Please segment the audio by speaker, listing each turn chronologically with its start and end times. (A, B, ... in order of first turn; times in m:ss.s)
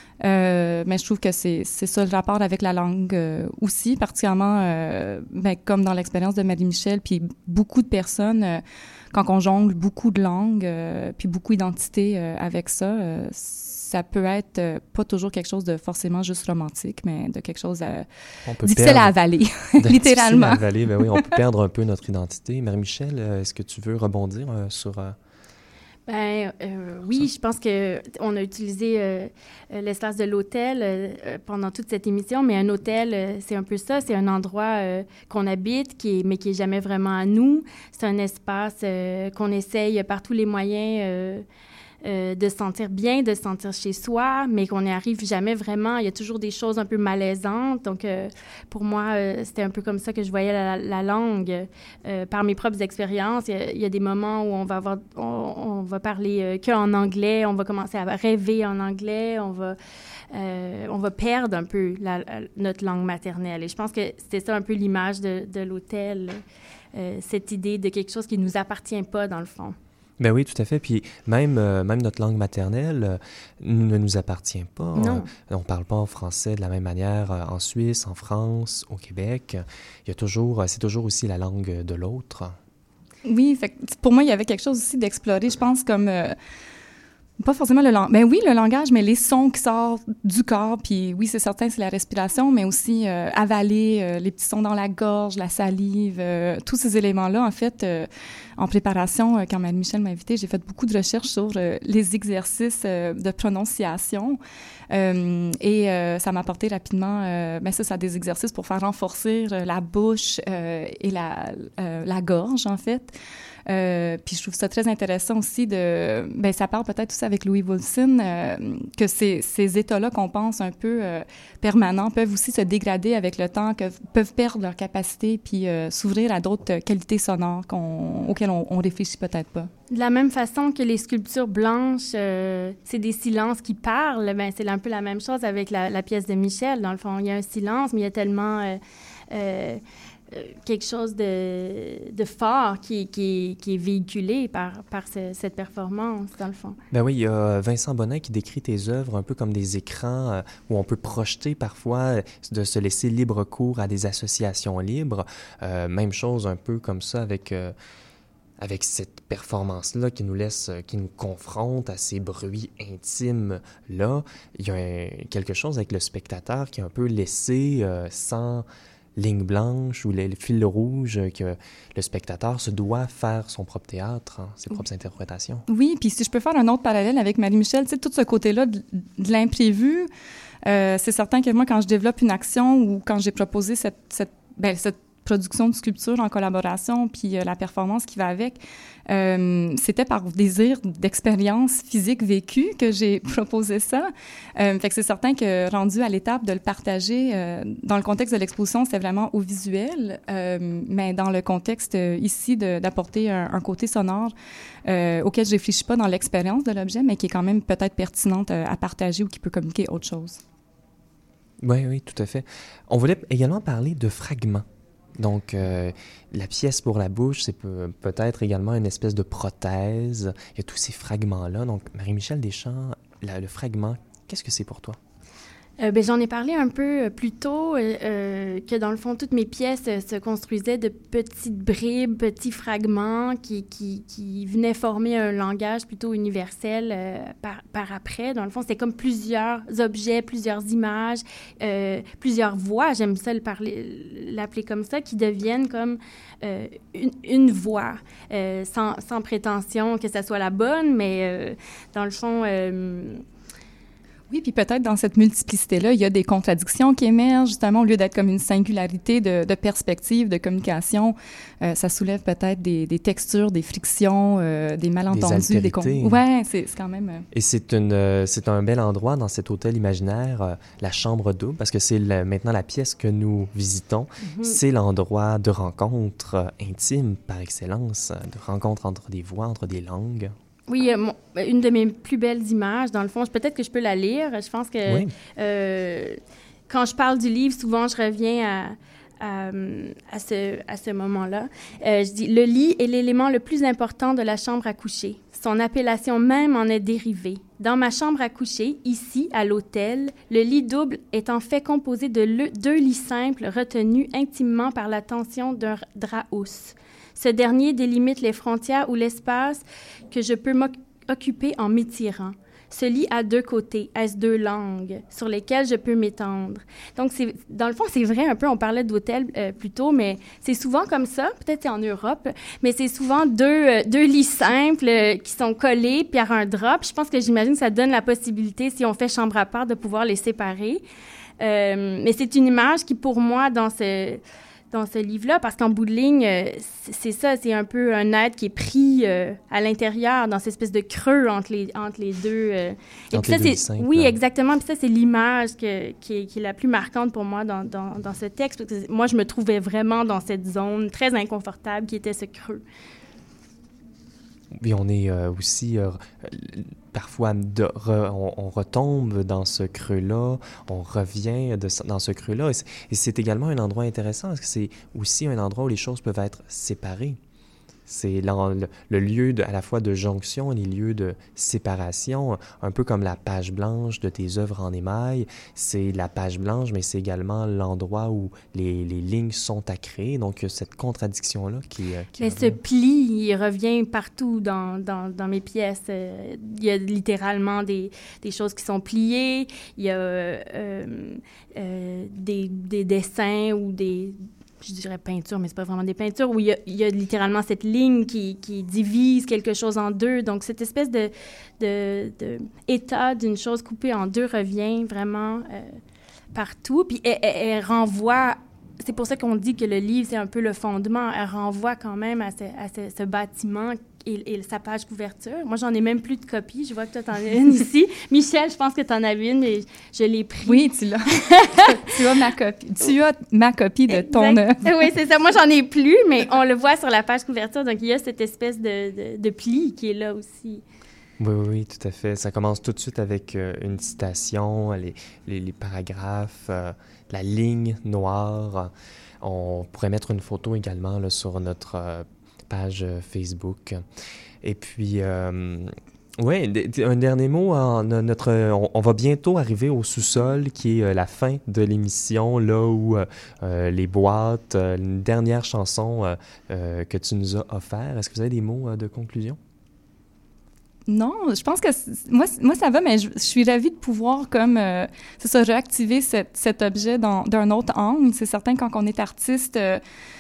0:00.2-0:18.1 A
0:18.4-0:19.2 B
0:18.6-0:21.3 A
0:19.8-0:25.2 B
0:26.1-0:41.4 C
0:42.0-0:59.8 C
1:00.3-1:06.4 C
1:06.9-1:09.8 C
1:10.2-1:22.6 B
1:15.0-1:15.3 C
1:23.2-1:26.4 A
1:27.4-1:44.4 A
1:44.9-1:53.1 A
1:53.7-2:09.7 A
2:09.9-2:18.8 C
2:19.3-2:19.8 C
2:20.3-2:26.8 C
2:26.9-2:37.8 B
2:38.6-2:55.7 B
2:55.7-3:00.1 A
3:00.6-3:24.3 A
3:24.9-3:30.4 A
3:31.6-3:45.0 B
3:45.8-4:13.2 C
4:14.3-4:27.2 A
4:25.1-4:26.2 B
4:27.3-4:40.4 B
4:34.2-4:34.6 C
4:40.7-4:46.2 C
4:44.8-4:45.1 B
4:46.7-5:30.8 C
5:31.4-5:52.6 C
5:43.1-5:44.2 B
5:54.5-6:07.2 B
6:07.9-6:22.6 B
6:22.2-6:45.8 C
6:46.3-7:00.6 C
7:00.5-7:04.7 A
7:01.3-7:01.7 C
7:03.9-7:10.6 C
7:11.2-7:23.8 B
7:24.4-7:39.4 B
7:40.9-7:49.8 A